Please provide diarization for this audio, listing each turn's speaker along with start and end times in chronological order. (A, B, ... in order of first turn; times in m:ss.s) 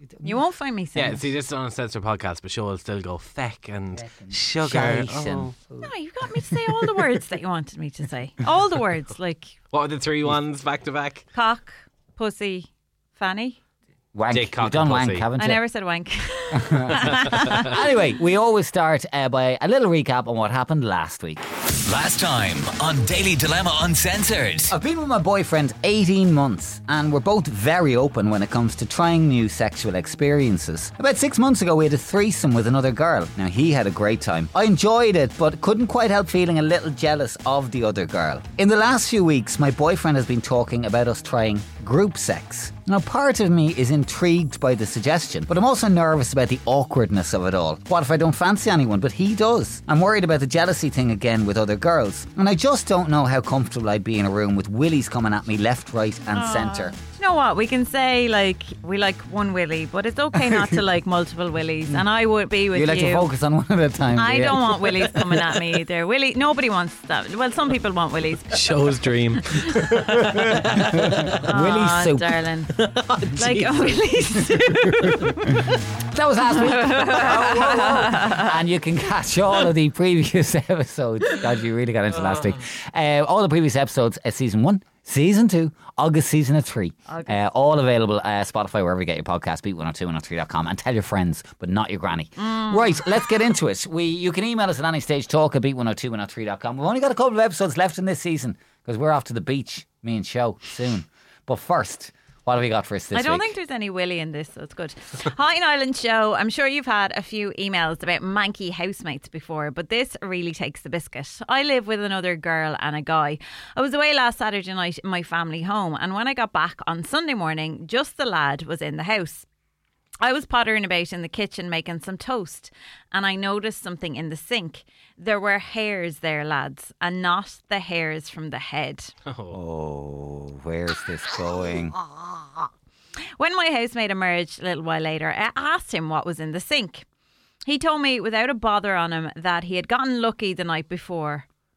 0:00.2-0:01.2 A
0:00.9-0:05.5 B
0:04.0-0:05.9 C
0:05.8-0:09.5 A
0:09.7-0:11.2 B
0:11.3-0:13.6 A
0:14.1-0:15.6 C
0:14.3-0:15.3 B
0:15.4-0:17.8 A
0:16.5-0:21.4 C
0:21.8-0:24.7 D
0:24.7-0:56.9 C
0:56.3-1:03.3 A
1:02.7-1:04.8 C
1:04.1-1:08.6 A
1:08.5-1:11.5 B
1:10.7-1:12.4 C
1:11.4-1:12.7 A
1:12.7-1:14.0 B
1:13.3-1:15.8 A
1:16.0-1:43.5 C
1:16.5-1:18.6 A
1:22.1-1:22.6 B
1:27.1-1:27.4 A
1:32.4-1:32.9 A
1:43.1-1:59.4 A
2:00.2-2:09.1 A
2:09.2-2:09.6 B
2:09.5-2:12.0 C
2:13.4-2:17.0 A
2:17.6-2:21.4 A